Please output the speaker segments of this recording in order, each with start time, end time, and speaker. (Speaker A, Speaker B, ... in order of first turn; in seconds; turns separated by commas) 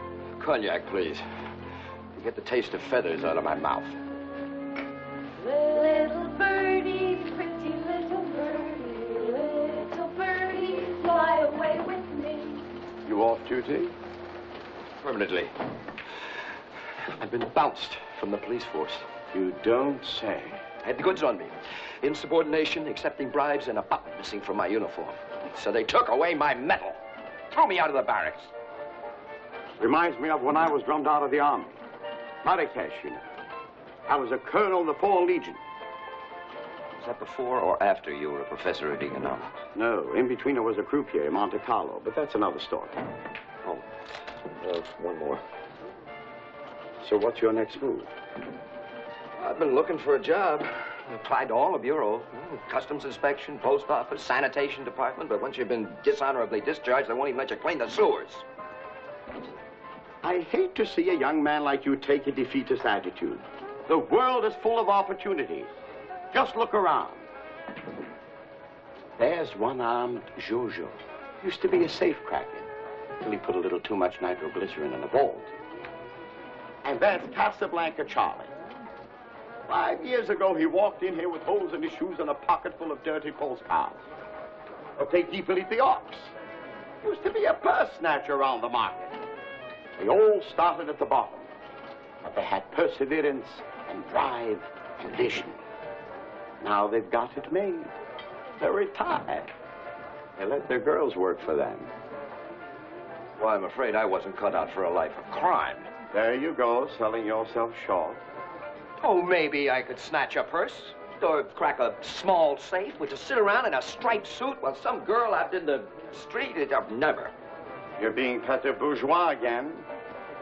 Speaker A: 0.4-1.2, Speaker A: 2.1-4.0, Speaker B: 5.4-12.7, Speaker C: 13.0-13.9, Speaker A: 15.0-15.5, Speaker A: 17.1-19.1, Speaker C: 19.3-20.7, Speaker A: 20.8-27.0, Speaker A: 27.5-28.5, Speaker C: 29.8-31.7, Speaker C: 32.4-33.2, Speaker C: 34.1-35.6, Speaker A: 37.0-39.6, Speaker C: 39.8-43.0, Speaker C: 44.5-45.4, Speaker C: 47.0-48.1, Speaker A: 49.4-58.5, Speaker C: 60.2-65.7, Speaker C: 66.3-67.2, Speaker C: 69.2-72.7, Speaker C: 73.2-75.5, Speaker C: 76.8-78.5, Speaker C: 79.7-84.0, Speaker C: 85.0-86.3, Speaker C: 87.0-89.2, Speaker C: 90.0-91.5, Speaker C: 92.2-95.6, Speaker C: 96.6-97.9, Speaker C: 98.6-99.5, Speaker C: 100.4-101.9, Speaker A: 103.4-105.9, Speaker C: 106.1-108.2, Speaker A: 109.0-117.3, Speaker C: 118.0-119.8